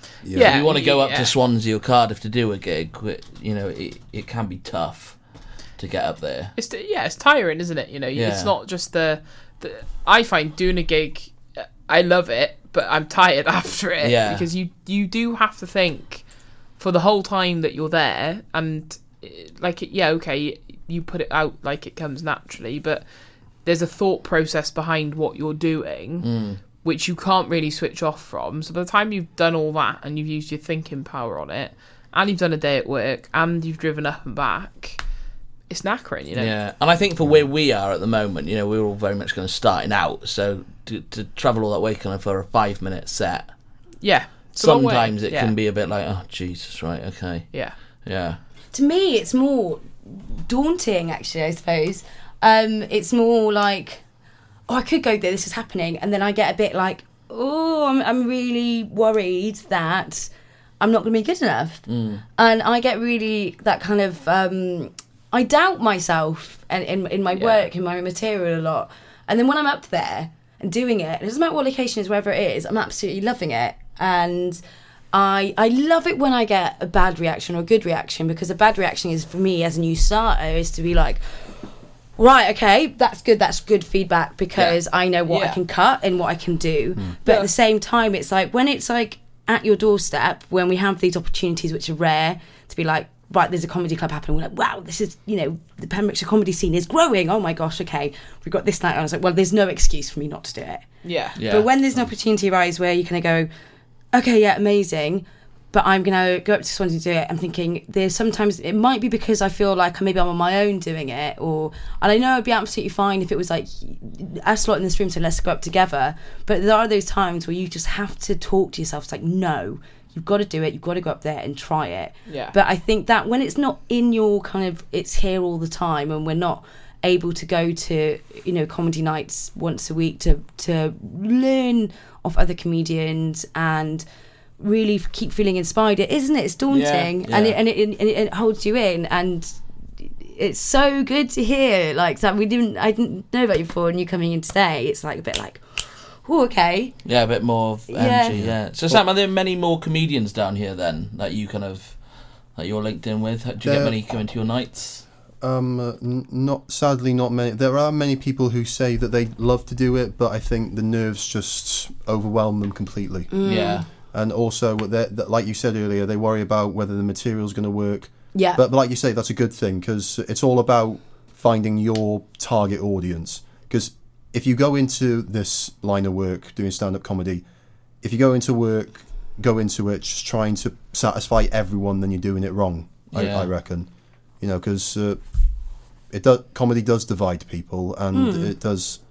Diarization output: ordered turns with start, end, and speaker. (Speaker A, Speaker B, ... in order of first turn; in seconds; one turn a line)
Speaker A: 0.2-0.6
Speaker B: 0.3-5.2
Speaker C: 0.3-1.3
Speaker B: 5.8-6.5
Speaker C: 6.5-16.2
Speaker B: 8.1-8.5
Speaker B: 14.0-14.4
Speaker C: 16.8-23.1
Speaker C: 23.6-35.0
Speaker B: 26.2-26.6
Speaker C: 35.7-36.5
Speaker B: 36.3-43.5
Speaker C: 44.0-45.5
Speaker B: 44.6-48.4
Speaker D: 48.7-54.0
Speaker D: 54.7-61.8
Speaker B: 61.9-62.2
Speaker D: 62.4-74.6
Speaker D: 75.1-81.2
Speaker D: 82.2-100.9
Speaker C: 85.3-85.6
Speaker C: 101.0-101.4
Speaker B: 101.4-102.0
Speaker D: 101.4-103.5
Speaker D: 104.1-134.0
Speaker C: 122.3-122.5
Speaker D: 134.6-139.5
Speaker B: 136.7-137.6
Speaker D: 140.3-145.7
Speaker D: 146.2-147.0
Speaker B: 147.0-152.0
Speaker D: 147.9-148.4
Speaker A: 148.3-149.0
Speaker B: 152.5-155.0
Speaker A: 153.6-154.0
Speaker A: 155.4-163.3
Speaker D: 163.3-163.8
Speaker B: 163.4-163.8
Speaker A: 164.1-177.4
Speaker D: 168.3-168.6
Speaker A: 178.0-185.2
Speaker B: 183.1-183.5
Speaker A: 186.1-189.0
Speaker D: 188.1-188.5